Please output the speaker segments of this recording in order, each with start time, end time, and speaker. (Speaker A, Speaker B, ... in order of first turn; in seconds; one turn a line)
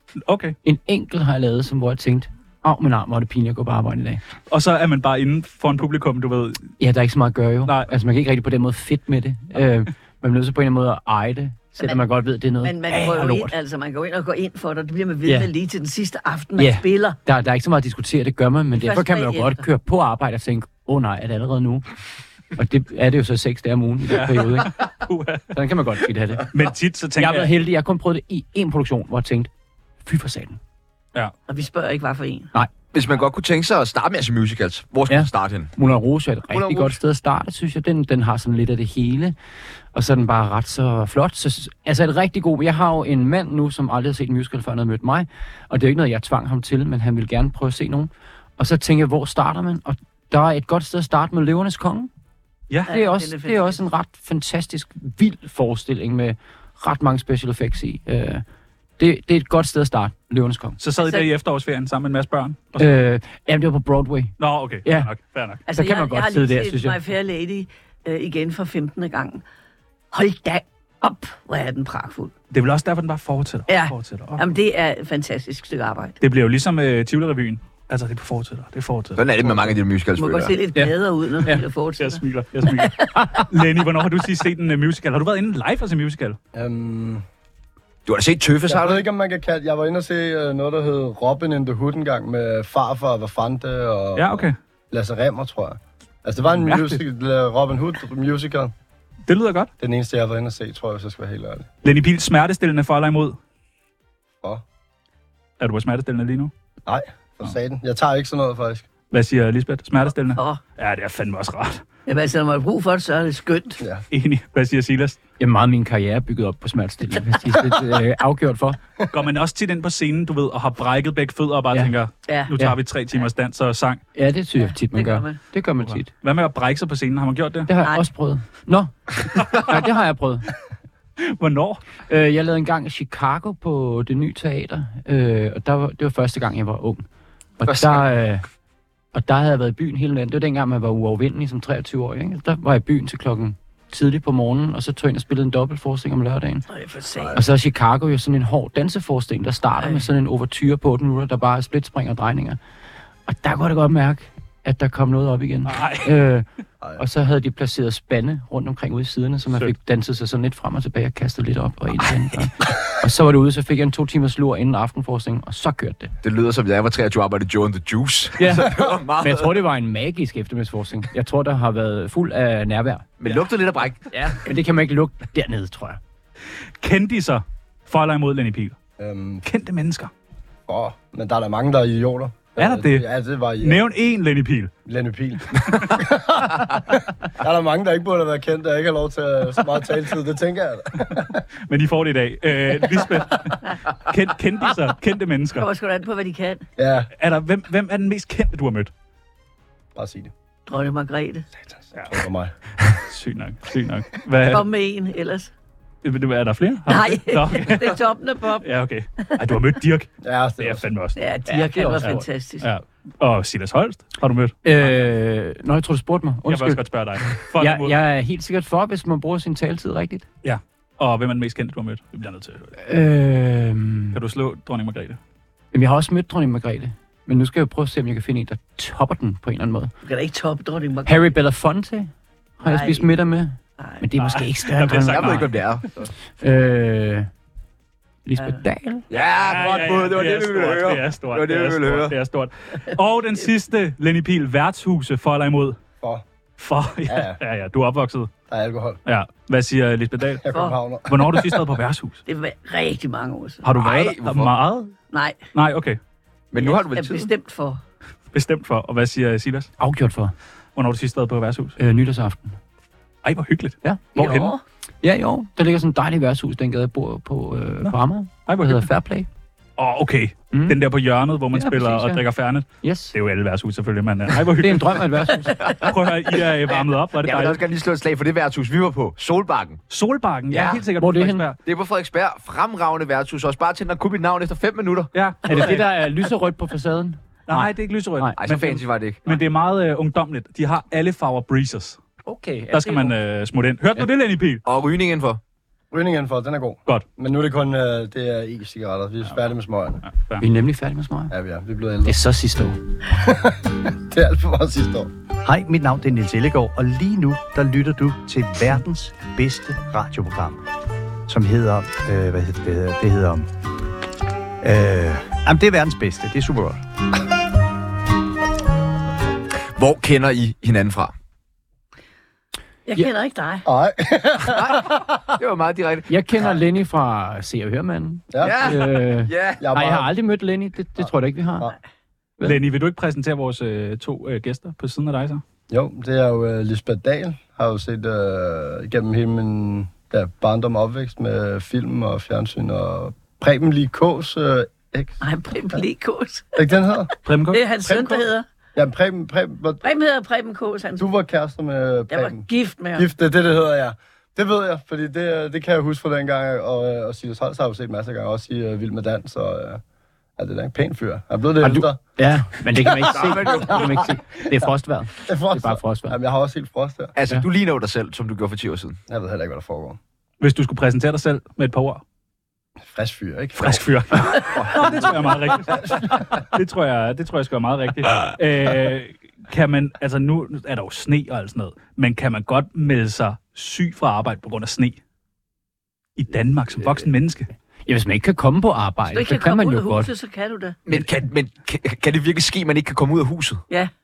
Speaker A: 0.3-0.6
Speaker B: 0.6-4.2
Speaker A: 4.5-6.7
Speaker B: 6.8-13.6
Speaker A: 7.6-7.9
Speaker C: 12.6-17.2
Speaker B: 15.2-15.5
Speaker B: 16.6-21.9
Speaker C: 18.8-19.7
Speaker B: 22.6-24.7
Speaker A: 24.1-25.4
Speaker B: 25.5-26.5
Speaker A: 26.5-27.5
Speaker B: 27.2-29.5
Speaker B: 30.1-30.6
Speaker C: 31.5-32.5
Speaker D: 32.9-35.7
Speaker B: 35.1-39.4
Speaker D: 36.5-37.0
Speaker B: 39.9-52.1
Speaker B: 52.9-58.4
Speaker C: 52.9-53.8
Speaker B: 59.0-60.8
Speaker A: 60.8-63.0
Speaker C: 61.0-61.3
Speaker B: 62.8-65.1
Speaker A: 64.4-65.6
Speaker C: 65.7-69.4
Speaker B: 65.7-67.0
Speaker C: 70.1-72.3
Speaker A: 72.5-74.4
Speaker C: 73.7-76.2
Speaker A: 76.2-79.2
Speaker D: 79.2-80.5
Speaker C: 80.2-82.2
Speaker B: 80.8-81.6
Speaker A: 82.0-86.4
Speaker C: 82.8-83.1
Speaker B: 83.2-83.5
Speaker E: 86.5-87.2
Speaker D: 88.0-89.0
Speaker E: 88.7-98.7
Speaker A: 94.2-94.5
Speaker A: 96.5-97.0
Speaker A: 99.3-99.7
Speaker E: 99.8-101.7
Speaker A: 101.8-103.4
Speaker A: 105.6-106.5
Speaker E: 106.9-108.8
Speaker A: 109.1-111.8
Speaker C: 110.4-110.6
Speaker C: 112.1-113.8
Speaker A: 114.1-115.2
Speaker B: 115.4-118.8
Speaker A: 119.1-124.0
Speaker B: 124.1-126.1
Speaker C: 124.9-125.4
Speaker A: 125.8-127.7
Speaker B: 127.7-130.5
Speaker A: 131.2-131.8
Speaker B: 132.1-137.0
Speaker B: 137.6-138.4
Speaker D: 137.6-138.0
Speaker B: 139.1-146.6
Speaker C: 146.7-147.4
Speaker B: 147.3-152.6
Speaker C: 149.8-150.1
Speaker B: 153.2-156.5
Speaker A: 155.7-156.1
Speaker B: 157.0-166.1
Speaker D: 166.2-169.5
Speaker B: 168.4-173.1
Speaker D: 173.2-174.1
Speaker B: 174.1-176.0
Speaker A: 176.8-178.8
Speaker E: 179.0-179.4
Speaker A: 179.4-180.1
Speaker E: 180.7-183.8
Speaker A: 182.6-183.1
Speaker A: 183.6-184.7
Speaker E: 184.9-191.4
Speaker A: 191.7-195.7
Speaker C: 195.6-196.6
Speaker E: 196.8-197.1
Speaker A: 197.2-198.9
Speaker E: 200.0-200.3
Speaker C: 200.7-201.5
Speaker E: 201.8-202.5
Speaker A: 201.9-202.2
Speaker A: 202.9-204.7
Speaker C: 204.5-205.5
Speaker A: 206.0-208.0
Speaker C: 206.9-208.6
Speaker A: 208.6-211.2
Speaker E: 210.2-210.8
Speaker C: 211.2-212.7
Speaker B: 211.5-212.2
Speaker A: 212.0-215.1
Speaker B: 214.6-216.8
Speaker A: 216.5-217.9
Speaker B: 217.4-220.2
Speaker A: 220.4-222.7
Speaker B: 222.8-224.2
Speaker A: 224.1-225.2
Speaker B: 225.7-229.9
Speaker C: 230.0-231.3
Speaker B: 231.1-235.5
Speaker C: 232.6-233.1
Speaker C: 233.8-234.0
Speaker A: 234.2-235.5
Speaker D: 235.1-236.1
Speaker B: 236.4-237.3
Speaker B: 238.2-239.1
Speaker D: 239.1-242.1
Speaker A: 239.3-245.8
Speaker A: 246.6-248.3
Speaker E: 247.1-247.4
Speaker E: 248.5-249.0
Speaker A: 249.1-250.4
Speaker E: 250.4-251.6
Speaker C: 250.5-250.8
Speaker A: 251.1-252.2
Speaker C: 252.2-253.7
Speaker A: 253.6-254.9
Speaker D: 253.8-254.5
Speaker C: 255.1-255.4
Speaker A: 255.5-256.0
Speaker D: 256.5-257.3
Speaker C: 256.6-257.8
Speaker A: 258.3-259.7
Speaker B: 259.8-260.3
Speaker A: 260.8-261.8
Speaker B: 261.8-262.6
Speaker A: 263.2-264.5
Speaker B: 263.8-264.5
Speaker C: 264.1-264.6
Speaker B: 265.0-269.3
Speaker A: 268.5-268.9
Speaker A: 269.8-275.1
Speaker B: 270.5-270.8
Speaker B: 271.5-272.2
Speaker B: 272.8-273.1
Speaker B: 274.5-275.8
Speaker D: 275.6-275.9
Speaker A: 275.8-277.6
Speaker D: 277.2-279.8
Speaker A: 279.9-281.6
Speaker B: 280.5-281.5
Speaker D: 281.6-285.1
Speaker A: 285.1-285.9
Speaker B: 285.4-288.4
Speaker A: 287.5-292.0
Speaker D: 288.4-289.2
Speaker B: 292.2-293.1
Speaker A: 292.7-294.6
Speaker D: 294.6-295.4
Speaker E: 295.9-300.0
Speaker A: 300.0-300.5
Speaker B: 300.4-301.3
Speaker E: 301.3-302.2
Speaker B: 302.0-302.8
Speaker E: 303.1-305.1
Speaker F: 305.4-310.6
Speaker F: 311.3-313.5
Speaker F: 314.6-316.8
Speaker D: 319.8-321.1
Speaker C: 322.9-323.6
Speaker E: 323.6-325.1
Speaker D: 324.5-326.1
Speaker B: 326.1-331.7
Speaker E: 328.3-328.8
Speaker D: 328.4-329.6
Speaker E: 329.6-330.1
Speaker E: 331.0-331.8
Speaker A: 332.4-335.4
Speaker E: 335.7-345.8
Speaker C: 345.2-346.6
Speaker E: 346.6-347.1
Speaker A: 347.2-347.6
Speaker C: 347.5-348.5
Speaker E: 347.9-349.8
Speaker C: 349.8-351.1
Speaker E: 351.0-359.8
Speaker C: 352.1-353.1
Speaker E: 360.4-362.0
Speaker B: 361.6-366.2
Speaker E: 363.0-364.4
Speaker D: 363.1-363.9
Speaker E: 365.2-367.1
Speaker D: 367.1-369.0
Speaker E: 369.1-370.0
Speaker A: 370.4-372.0
Speaker E: 372.9-374.4
Speaker A: 373.6-385.0
Speaker D: 374.4-374.9
Speaker A: 386.2-387.5
Speaker B: 387.9-390.1
Speaker C: 389.1-390.8
Speaker D: 390.9-393.6